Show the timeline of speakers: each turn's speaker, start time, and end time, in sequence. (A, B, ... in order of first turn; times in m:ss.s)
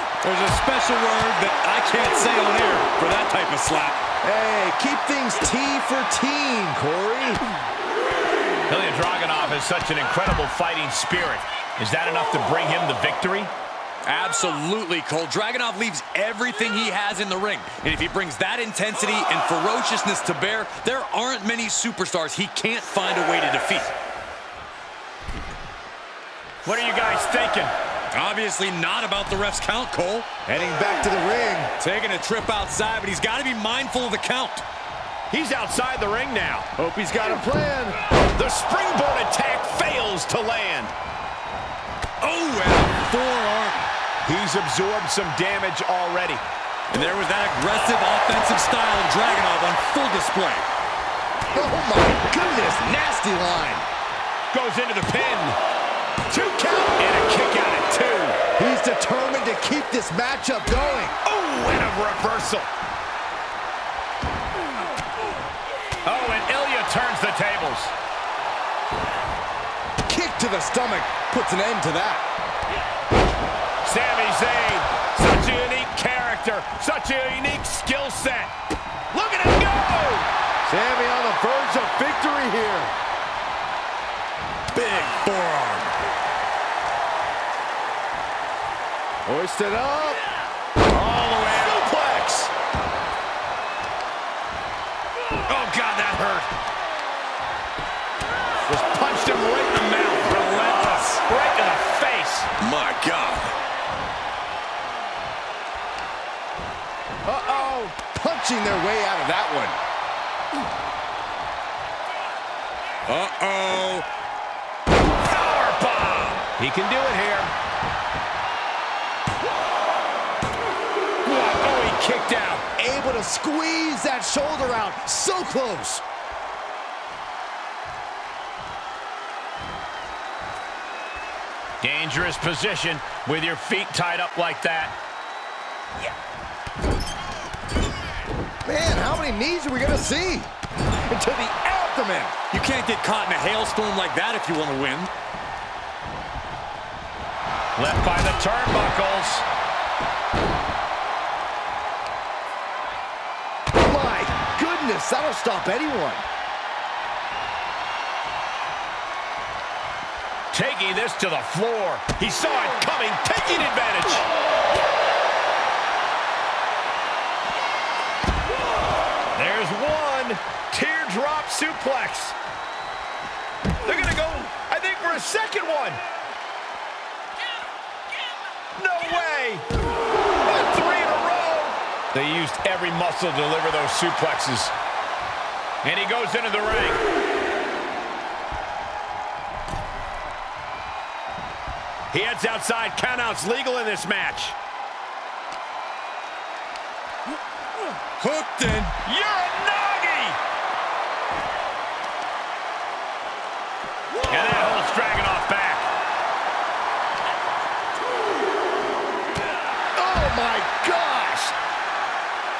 0:00.2-0:04.0 A
0:04.2-0:07.4 B
0:08.7-0:13.5 C
0:14.0-0:23.9 A
0:26.6-0:27.7 C
0:28.1-0:30.3 A
0:30.4-0:31.7 B
0:31.8-0:34.6 A
0:35.3-0:36.7 C
0:36.8-0:38.0 B
0:38.2-0:40.9 C
0:42.2-0:43.8 A
0:44.2-0:46.4 C
0:46.9-0:50.7 A
0:51.5-0:53.8 B
0:54.5-0:55.6 C
0:56.3-0:57.0 B
0:57.0-0:58.4 C
0:58.6-1:01.2 B
1:01.2-1:02.7 C
1:06.0-1:07.9 C
1:10.1-1:12.2 B
1:13.8-1:18.5 C
1:19.1-1:20.3 C
1:20.6-1:22.9 B
1:24.7-1:25.9 A
1:29.2-1:30.2 B
1:30.8-1:32.5 C
1:35.5-1:36.5 C
1:38.6-1:42.5 C
1:42.6-1:43.5 A
1:47.2-1:49.8 B
1:53.1-1:54.0 A
1:55.0-1:57.5 C
2:01.2-2:02.6 C
2:02.8-2:06.0 B
2:11.8-2:15.0 C
2:18.6-2:22.4 B
2:22.5-2:25.1 A
2:27.8-2:29.4 C
2:33.8-2:36.2 B
2:40.5-2:44.2 C
2:49.3-2:52.3 C
2:53.8-2:56.0 C
2:58.7-2:59.6 C
3:00.4-3:04.7 C
3:05.8-3:07.0 C
3:12.1-3:14.6 C
3:18.2-3:18.9 A
3:19.0-3:20.4 C
3:24.2-3:25.9 C
3:30.0-3:31.5 B